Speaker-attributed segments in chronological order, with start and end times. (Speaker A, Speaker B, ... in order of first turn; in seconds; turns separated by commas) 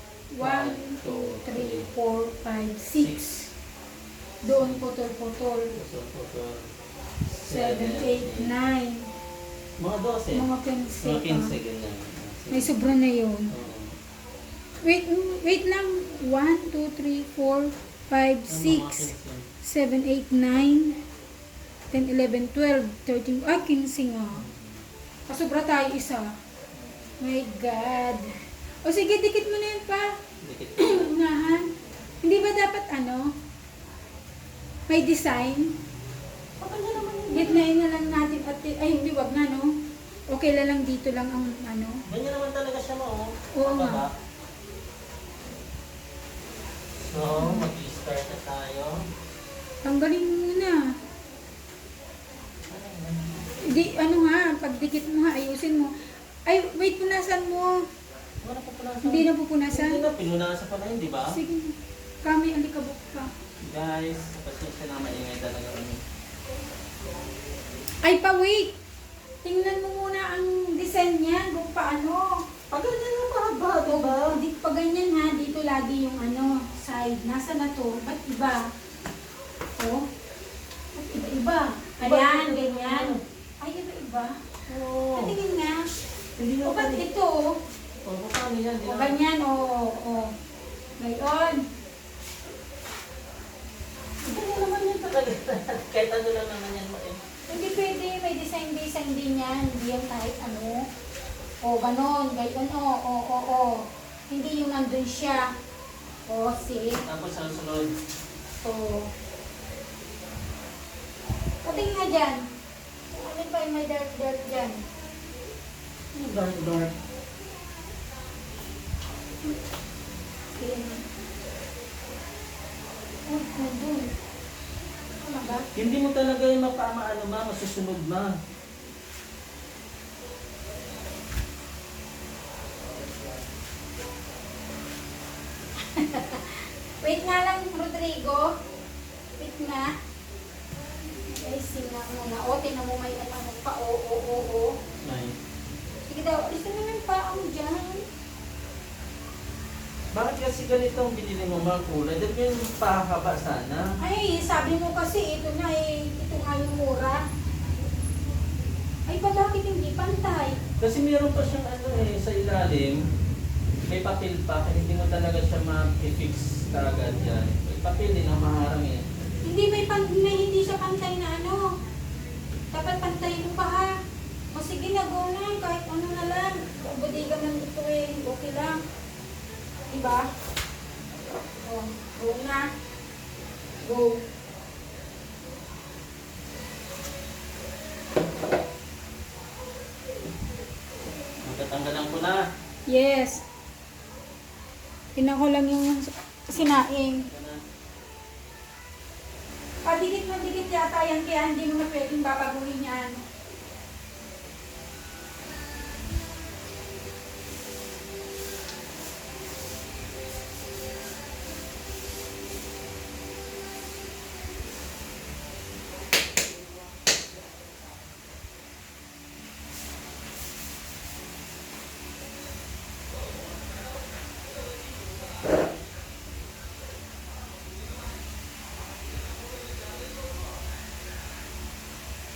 Speaker A: 0.3-3.1, Speaker B: 0.4-1.9, Speaker B: 3.0-3.5, Speaker B: 4.4-4.8, Speaker A: 4.4-5.7, Speaker B: 5.8-6.7, Speaker B: 7.3-8.5, Speaker A: 7.5-9.1, Speaker B: 9.8-10.5, Speaker A: 10.3-11.5, Speaker B: 11.0-12.7, Speaker A: 12.5-13.5, Speaker B: 13.5-13.9, Speaker A: 14.8-19.1, Speaker B: 18.5-19.5, Speaker A: 19.6-21.0, Speaker A: 21.9-24.4, Speaker B: 24.3-24.9, Speaker A: 25.3-26.3, Speaker B: 26.7-27.1, Speaker A: 27.2-28.3, Speaker A: 28.8-30.2, Speaker B: 30.4-31.2, Speaker A: 30.8-31.7, Speaker A: 32.2-33.3, Speaker A: 34.9-35.8, Speaker B: 36.6-37.7, Speaker A: 37.3-42.0, Speaker B: 42.1-44.1, Speaker A: 43.5-44.0, Speaker B: 47.0-49.0, Speaker A: 47.4-47.6, Speaker A: 49.8-50.9, Speaker B: 52.7-53.9, Speaker A: 53.6-57.9, Speaker B: 58.4-61.4, Speaker A: 59.1-60.0, Speaker A: 61.3-63.3, Speaker B: 63.7-66.0, Speaker A: 68.0-68.7, Speaker A: 69.4-72.5, Speaker B: 72.7-74.4, Speaker A: 73.9-78.7, Speaker A: 79.8-80.0, Speaker A: 81.0-84.4, Speaker B: 82.0-83.2, Speaker B: 84.7-85.3, Speaker A: 85.2-85.9, Speaker B: 86.4-87.0, Speaker A: 86.6-87.6, Speaker B: 88.0-89.2, Speaker A: 88.8-90.3, Speaker A: 91.0-91.7, Speaker B: 94.2-97.2, Speaker A: 97.5-100.9, Speaker A: 101.6-105.5, Speaker A: 106.3-107.0, Speaker B: 107.0-108.0, Speaker A: 108.6-109.1, Speaker A: 111.6-112.4, Speaker A: 113.1-114.9, Speaker B: 116.2-116.9, Speaker A: 120.6-121.0, Speaker A: 123.3-124.1, Speaker A: 125.2-125.7, Speaker B: 125.8-128.3, Speaker A: 135.8-138.5, Speaker A: 139.4-139.9, Speaker A: 141.2-144.7, Speaker B: 145.1-145.4, Speaker A: 146.1-148.1, Speaker B: 150.1-153.9, Speaker A: 154.0-157.2, Speaker A: 159.1-160.6, Speaker B: 160.8-163.0, Speaker B: 163.9-169.1, Speaker A: 169.4-171.7, Speaker A: 172.7-173.9, Speaker A: 174.5-178.8, Speaker A: 179.9-180.3, Speaker A: 181.7-182.7, Speaker A: 183.8-184.2, Speaker B: 191.4-192.4, Speaker A: 192.9-193.4, Speaker A: 195.2-197.2, Speaker B: 196.5-197.6, Speaker A: 199.9-203.2